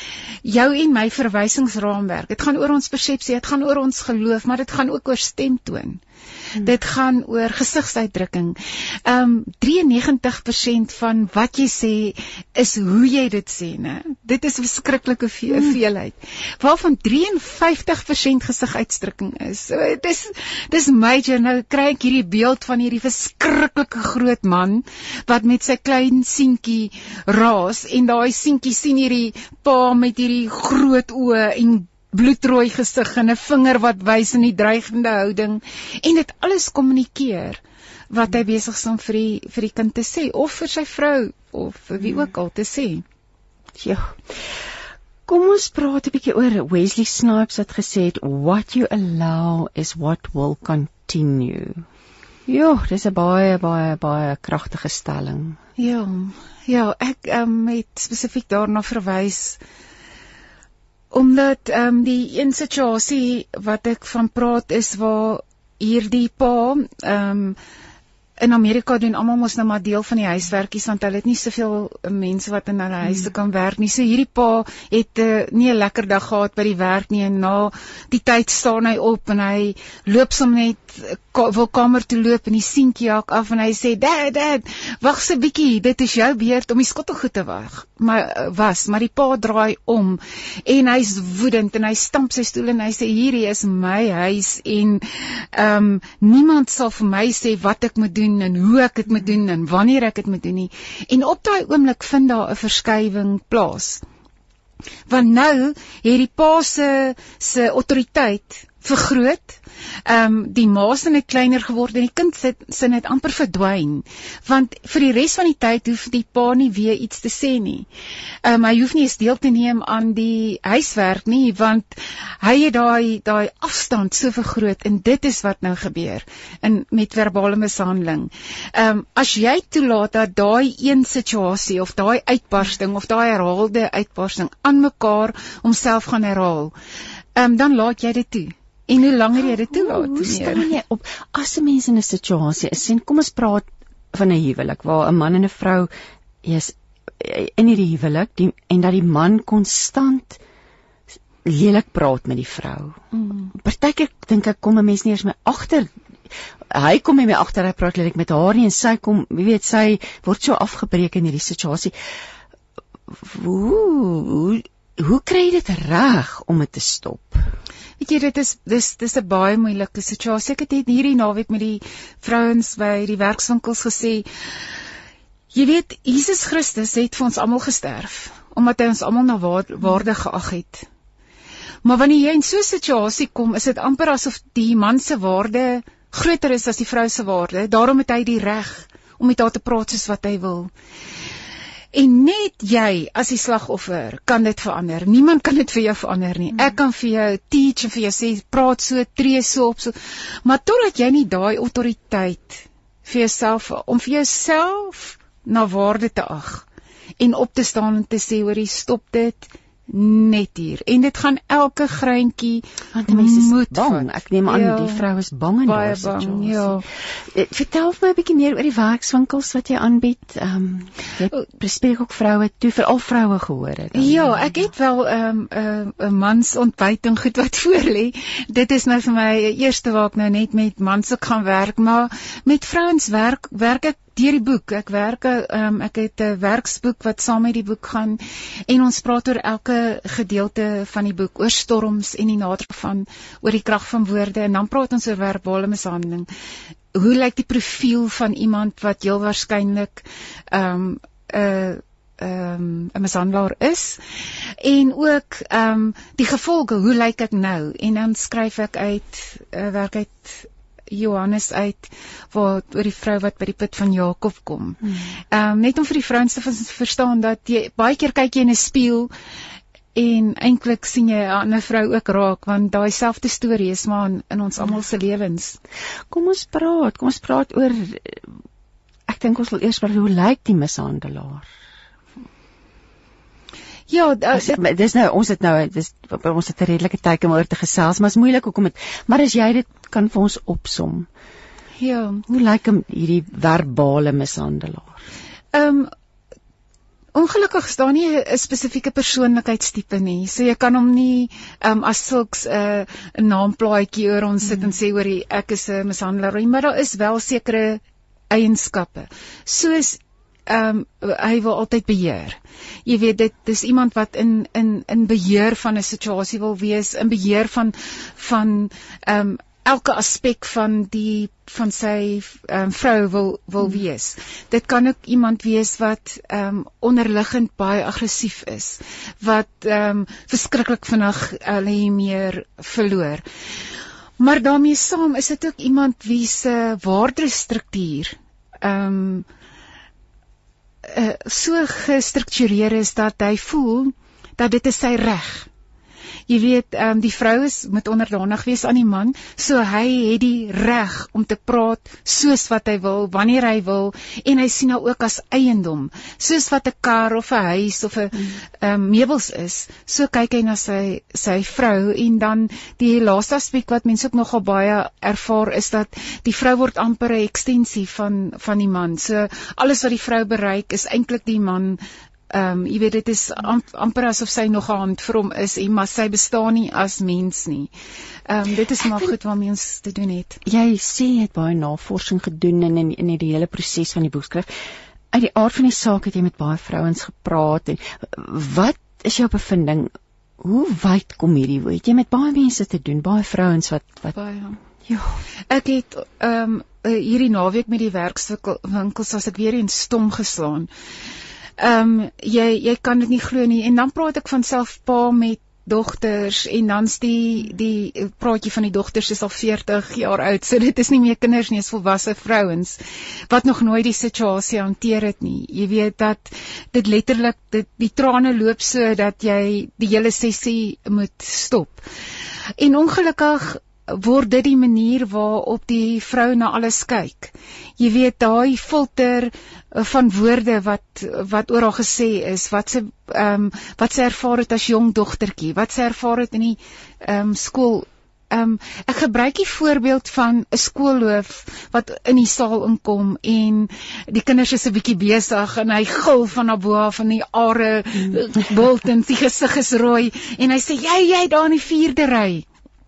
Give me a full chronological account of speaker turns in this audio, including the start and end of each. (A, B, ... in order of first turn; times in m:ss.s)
0:00.4-0:06.0 A
0:06.6-0:43.0 A
0:43.8-0:44.2 B
0:45.3-0:51.8 B
0:52.5-0:55.6 B
0:55.8-0:59.6 A
1:01.1-1:07.6 A
1:08.4-1:44.0 A
1:45.1-1:57.9 A
1:58.4-2:16.7 A
2:17.4-2:20.7 A
2:19.7-2:25.9 B
2:26.4-2:30.4 B
2:31.4-2:33.0 B
2:33.1-2:33.5 A
2:33.5-2:35.9 B
2:36.7-2:41.9 B
2:43.2-2:47.4 B
2:48.0-2:54.2 A
2:55.5-3:00.9 A
3:01.8-3:10.7 A
3:11.9-3:26.6 A
3:27.2-3:35.0 A
3:32.9-3:44.4 B
3:35.6-3:36.8 A
3:43.9-4:06.3 A
4:06.9-4:14.0 A
4:14.6-4:29.1 A
4:29.9-4:35.6 A
4:36.1-4:38.2 B
4:39.1-4:41.5 B
4:43.9-4:44.6 A
4:44.3-4:51.1 B
4:51.8-4:52.2 A
4:52.3-4:55.0 B
4:55.5-4:55.9 A
4:57.1-5:33.2 A
5:34.2-5:39.2 A
5:40.8-5:45.5 A
5:46.3-6:11.8 A
6:12.3-6:17.7 A
6:18.3-6:20.4 A
6:20.4-6:24.5 B
6:25.1-6:34.1 B
6:34.1-6:34.6 A
6:34.9-6:35.2 B
6:35.5-6:40.7 A
6:41.6-7:01.8 A
7:02.6-7:32.4 A